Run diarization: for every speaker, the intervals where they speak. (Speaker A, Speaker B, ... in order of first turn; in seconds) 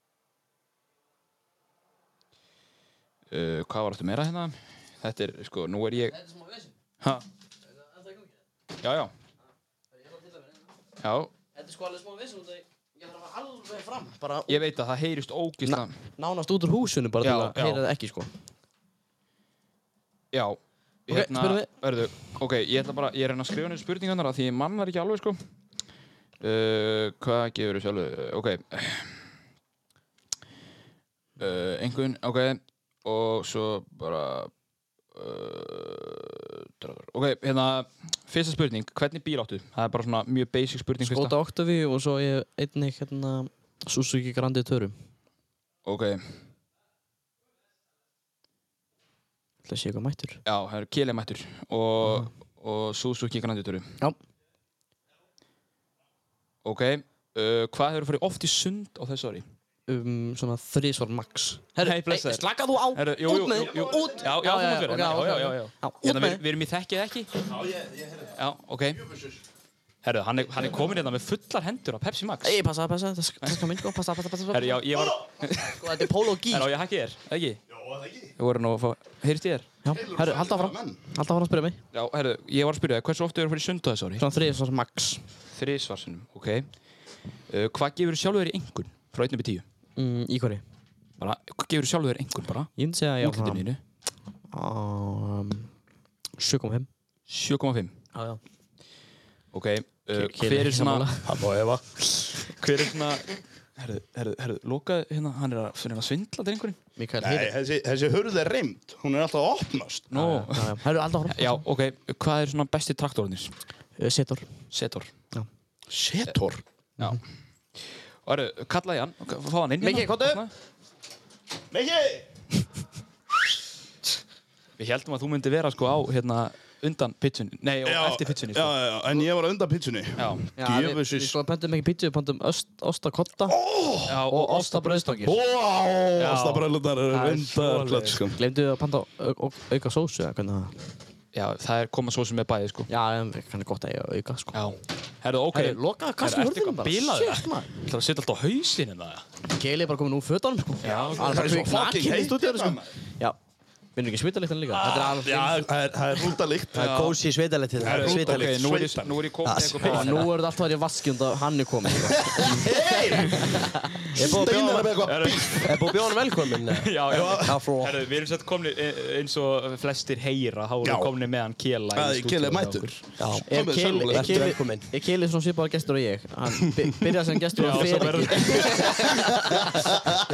Speaker A: 3.3-6.2, 8.8-9.1, 11.0-11.3, 14.5-15.9, 17.2-17.8, 20.3-25.4, 26.4-29.1, 31.4-34.5, 35.1-41.3, 45.9-46.2, 50.5-53.9, 56.6-59.5, 61.8-67.5, 68.3-69.1, 70.0-72.6, 74.5-77.6, 78.4-79.7, 81.9-84.2, 85.5-86.7, 87.5-89.6, 91.2-93.8, 97.3-98.0, 99.5-106.8, 110.1-113.5, 114.7-115.1, 117.8-120.5, 124.8-128.8, 130.2-130.4, 134.1-135.3, 136.2-138.2, 141.3-142.9, 144.5-149.2, 150.8-151.5, 156.8-157.2, 157.8-160.4, 165.1-165.7, 166.7-173.0, 177.6-179.1
Speaker B: 6.3-6.5, 11.6-14.6, 15.6-18.3, 21.1-21.7, 41.0-45.0, 49.6-50.4, 52.0-52.3, 59.9-66.4, 72.4-74.8, 75.6-76.7, 79.8-81.8, 84.2-85.2, 90.0-90.6, 92.8-93.6, 94.5-95.7, 96.4-96.9, 98.1-98.4, 100.1-101.2, 107.0-107.5, 110.1-111.6, 114.0-114.5, 119.8-120.4, 130.6-133.6, 134.3-135.4, 138.3-140.7, 142.9-144.6, 145.5-147.7, 149.5-153.4, 154.0-155.6, 159.8-163.8, 173.5-179.8
Speaker C: 67.5-68.3, 69.0-69.4, 77.7-78.3, 79.9-81.0, 107.2-110.1, 115.9-116.6, 121.7-122.3, 127.8-131.3, 133.5-134.2, 135.3-138.4, 151.1-152.9, 155.2-156.9, 157.8-159.2, 162.1-163.7, 164.2-165.7, 170.8-171.1, 171.9-174.6
Speaker D: 156.7-158.6, 159.4-160.0, 164.2-168.0, 173.2-174.8